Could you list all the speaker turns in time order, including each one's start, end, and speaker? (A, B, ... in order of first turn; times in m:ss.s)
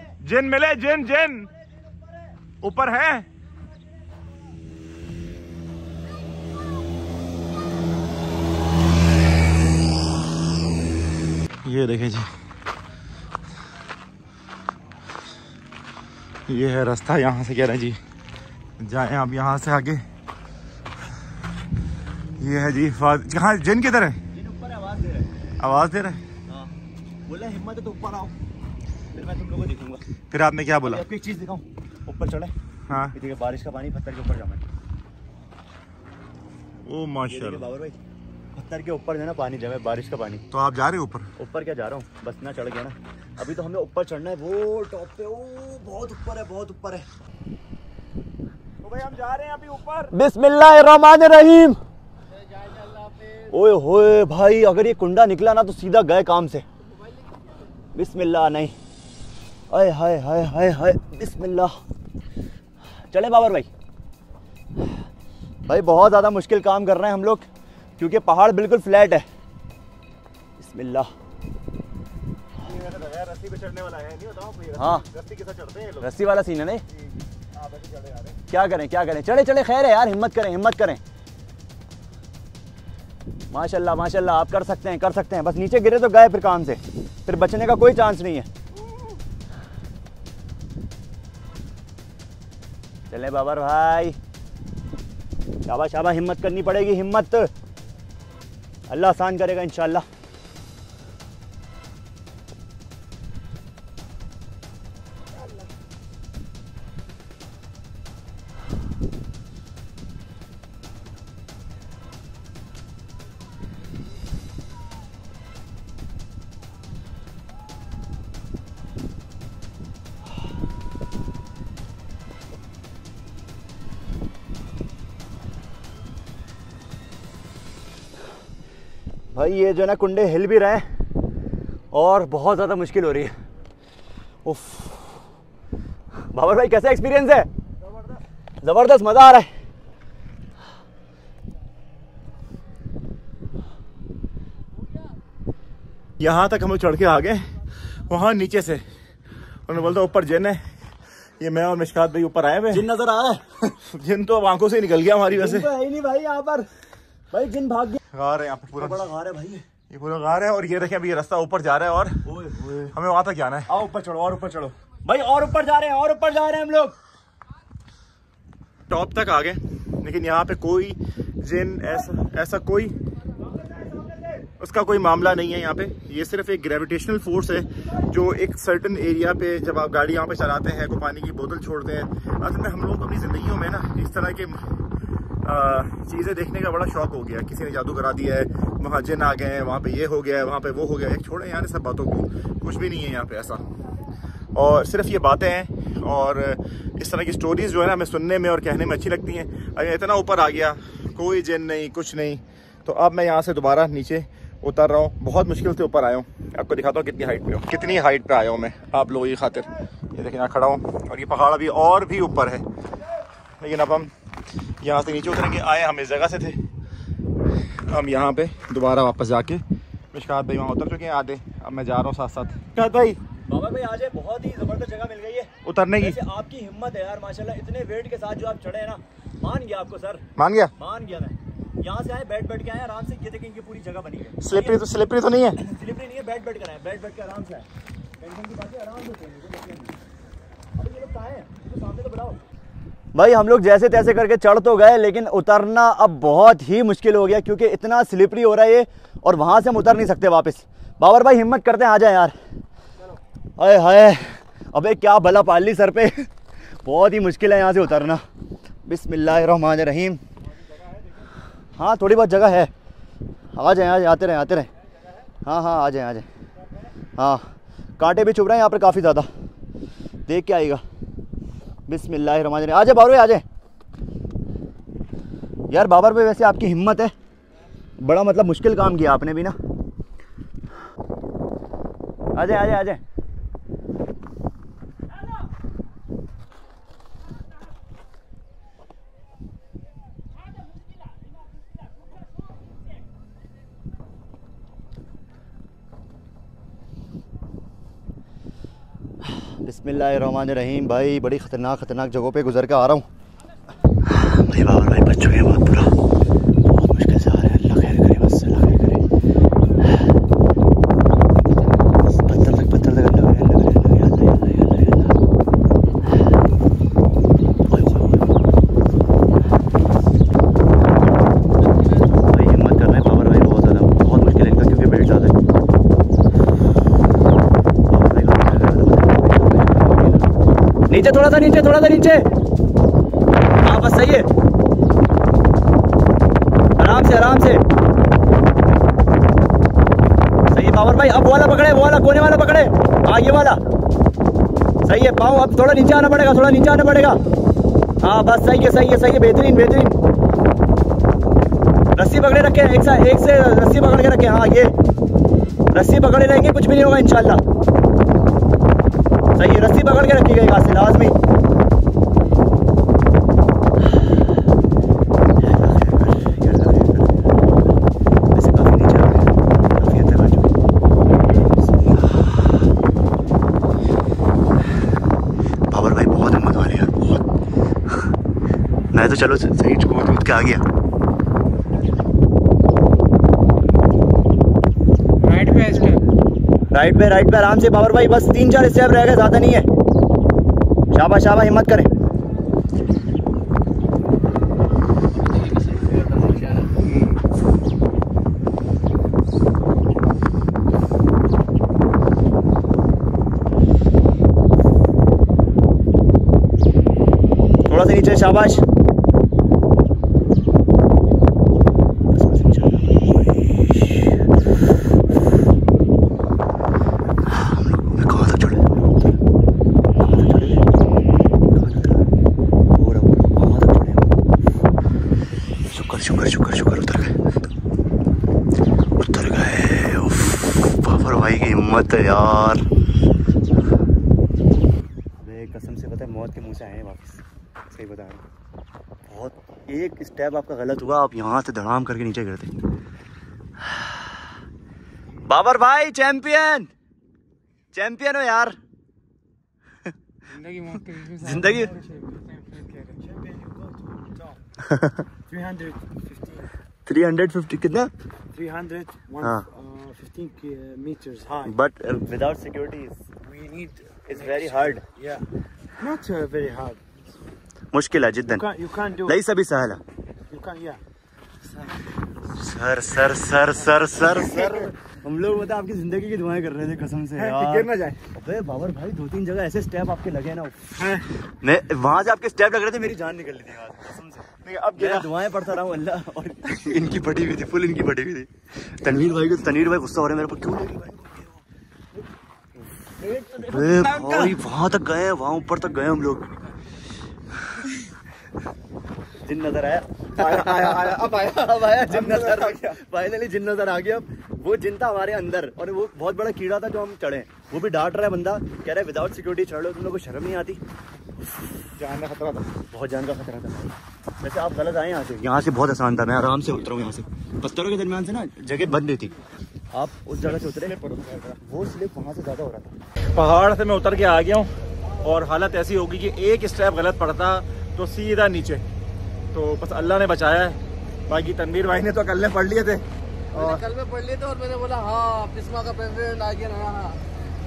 0:00.2-0:01.5 A
0:02.6-0:03.3 A
0:11.6-0:12.3 A
0:16.5-0:18.0 A
0:18.8-0:20.0 A
0:22.4-0:24.2 A
0:24.3-0:25.3 B
0:25.6-0:26.2 A
0:26.5-0:26.7 B
0:27.3-0:28.3 B
0:29.1-0:30.0 B
0:30.3-0:31.0 A
0:30.8-0:32.5 B
0:32.9-0:33.1 A
0:33.1-0:34.6 B
0:36.8-0:37.6 A
0:37.3-0:38.0 B
0:38.5-0:40.4 B
0:40.5-0:41.3 A
0:41.4-0:47.1 B
0:48.8-0:50.1 A
0:50.1-0:51.8 B
0:53.5-0:56.6 B
0:57.9-0:58.8 B
0:59.7-1:01.7 B
1:03.1-1:03.7 B
1:05.7-1:07.4 B
1:08.0-1:09.2 B
1:10.6-1:11.1 B
1:12.5-1:16.1 A
1:14.8-1:15.0 B
1:16.0-1:16.8 B
1:16.9-1:18.4 A
1:18.5-1:21.0 B
1:23.5-1:28.5 B
1:33.1-1:34.2 B
1:35.6-1:37.5 B
1:38.9-1:40.0 B
2:09.3-2:10.8 B
2:11.9-2:13.3 B
2:14.4-2:15.2 B
2:16.3-2:17.5 B
2:18.6-2:19.5 B
2:26.2-2:27.4 A
2:28.1-2:28.8 A
2:29.7-2:30.6 A
2:31.4-2:32.8 A
2:32.7-2:33.4 B
2:33.7-2:35.7 A
2:35.3-2:36.7 B
2:37.3-2:38.0 B
2:38.1-2:39.1 A
2:38.7-2:39.6 B
2:39.9-2:42.2 A
2:42.2-2:42.9 B
2:42.9-2:43.7 A
2:43.7-2:46.9 B
2:48.9-2:52.9 A
2:54.6-3:04.8 A
3:05.4-3:13.6 A
3:14.5-3:32.6 A
3:33.6-3:34.1 A
3:34.8-3:36.6 A
3:37.8-3:39.6 A
3:40.1-3:43.2 A
3:43.5-3:50.2 B
3:45.6-3:46.2 A
3:50.4-3:50.7 A
3:50.8-3:54.8 B
3:54.4-3:55.6 A
3:55.6-3:57.7 B
3:58.2-4:00.0 B
4:00.8-4:02.4 B
4:03.1-4:12.4 B
4:13.6-4:16.3 B
4:16.8-4:18.2 B
4:18.8-4:20.2 B
4:21.8-4:22.7 B
4:23.5-4:24.7 B
4:25.4-4:26.2 B
4:27.2-4:27.4 B
4:28.0-4:29.3 B
4:30.3-4:30.8 B
4:31.9-4:33.4 B
4:35.7-4:37.1 B
4:38.0-4:39.6 B
4:42.3-4:43.0 B
4:59.3-5:03.1 B
5:04.0-5:05.9 B
5:06.6-5:09.0 B
5:12.2-5:15.2 B
5:17.7-5:18.4 B
5:22.2-5:25.4 B
5:27.9-5:30.3 B
5:30.9-5:32.3 B
5:33.6-5:34.3 B
5:36.8-5:37.6 B
5:40.5-5:43.6 B
5:44.8-5:47.2 B
5:48.0-5:50.0 B
5:52.0-5:54.7 B
5:55.7-5:57.4 B
5:59.4-6:01.1 B
6:05.4-6:07.7 B
6:08.3-6:10.5 B
6:11.7-6:12.3 B
6:15.7-6:17.2 B
6:18.9-6:20.6 B
6:25.2-6:26.0 C
6:26.7-6:29.6 B
6:30.9-6:31.9 B
6:35.1-6:36.8 D
6:36.8-6:37.2 A
6:47.7-6:48.6 B
6:52.1-6:54.0 B
6:57.3-6:59.2 B
7:00.0-7:00.6 B
7:01.5-7:02.1 B
7:02.7-7:04.2 B
7:05.7-7:07.2 B
7:09.0-7:12.7 B
7:15.2-7:18.2 B
7:19.1-7:22.6 B
7:25.3-7:26.7 B
7:27.7-7:28.6 B
7:30.3-7:33.6 C
7:31.2-7:31.7 B
7:34.6-7:35.0 B
7:35.3-7:36.2 C
7:36.8-7:37.9 B
7:38.4-7:41.4 C
7:39.2-7:39.5 B
7:41.4-7:43.0 B
7:43.3-7:43.7 C
7:44.0-7:44.8 B
7:45.8-7:46.8 C
7:47.7-7:49.8 B
7:48.6-7:48.9 C
7:50.3-7:50.8 C
7:52.3-8:00.5 B
7:54.0-7:54.7 A
7:57.2-7:58.0 A
8:00.8-8:01.1 A
8:01.4-8:04.2 B
8:04.4-8:05.1 A
8:04.8-8:11.3 B
8:13.0-8:14.4 A
8:13.2-8:16.3 B
8:19.2-8:30.6 B
8:20.1-8:22.8 A
8:31.8-8:32.5 A
8:32.7-8:39.1 B
8:39.7-8:40.8 B
8:40.2-8:41.4 A
8:41.4-8:42.8 B
8:43.1-8:44.5 A
8:45.0-8:48.6 A
8:49.3-8:52.8 A
8:53.3-8:53.6 B
8:53.3-8:57.0 D